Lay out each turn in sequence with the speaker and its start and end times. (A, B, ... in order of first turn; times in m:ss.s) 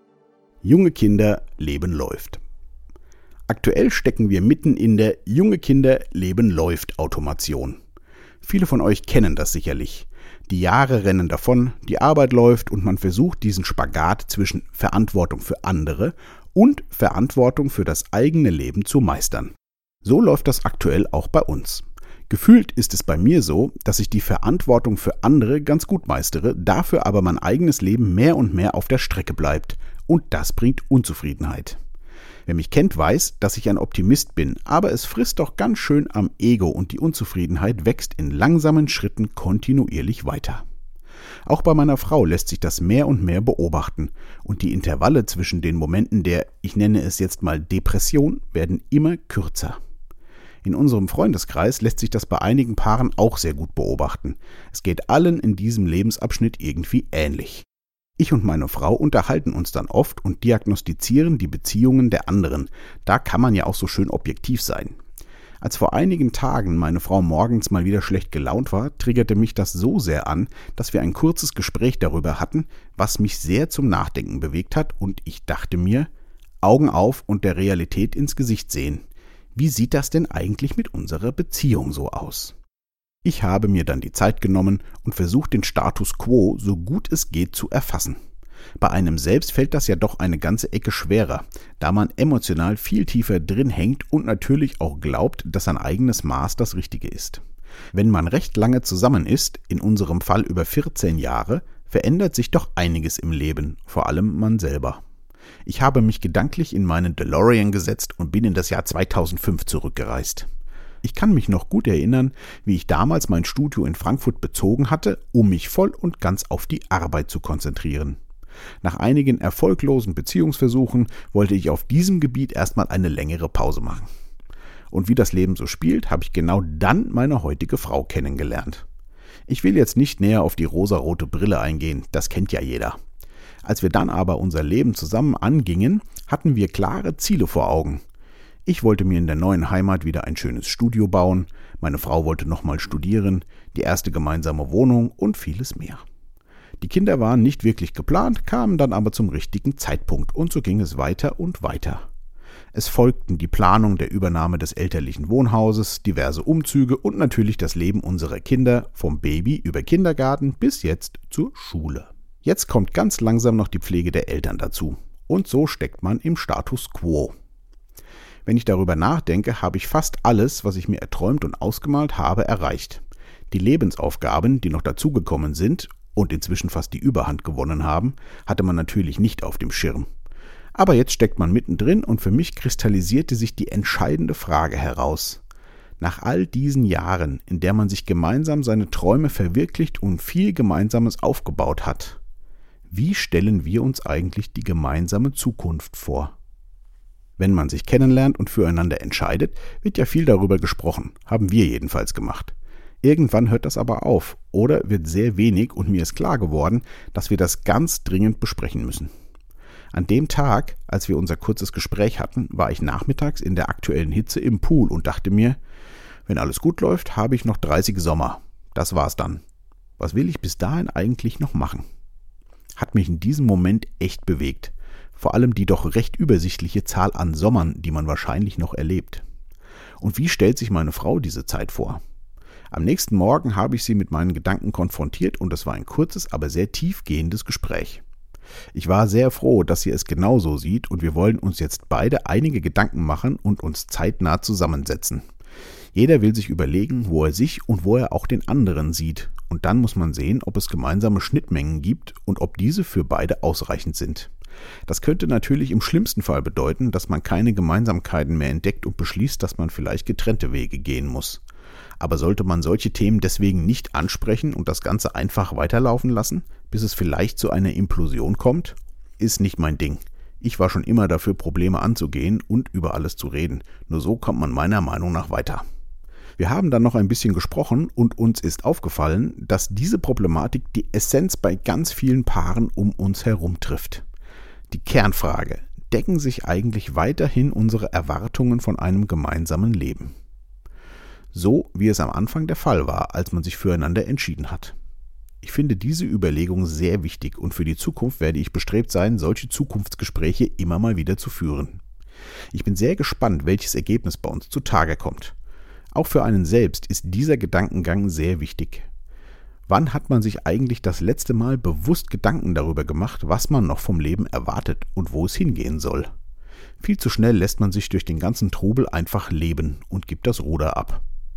0:00.6-0:02.4 A
0:03.5-0:07.8 A
0:08.4-0:31.8 A
0:32.4-0:40.6 A
0:41.4-0:49.8 A
0:50.6-0:57.6 A
0:58.2-1:05.0 A
1:05.6-1:16.1 A
1:16.6-1:22.6 A
1:23.2-1:28.2 A
1:28.8-1:37.4 A
1:37.9-1:45.0 A
1:45.6-1:50.5 A
1:51.0-1:58.2 A
1:58.8-2:04.1 A
2:04.9-2:08.8 A
2:09.5-2:13.0 A
2:13.6-2:18.0 A
2:18.6-2:26.0 A
2:26.8-2:32.1 A
2:32.7-2:47.3 A
2:48.4-3:00.1 A
3:00.7-3:05.4 A
3:06.0-3:12.2 A
3:12.9-3:16.3 A
3:17.4-3:29.1 A
3:29.9-3:35.6 A
3:36.3-3:39.4 A
3:40.0-3:41.8 A
3:42.8-3:49.2 A
3:50.0-3:52.0 A
3:52.7-3:58.0 A
3:58.7-4:05.2 A
4:05.9-4:14.3 A
4:14.9-4:21.4 A
4:22.0-4:35.6 A
4:36.4-4:44.0 A
4:44.7-4:50.1 A
4:51.3-4:54.7 A
4:55.4-5:01.8 A
5:02.5-5:05.3 A
5:05.9-5:08.9 A
5:09.7-5:16.1 A
5:16.8-5:21.0 A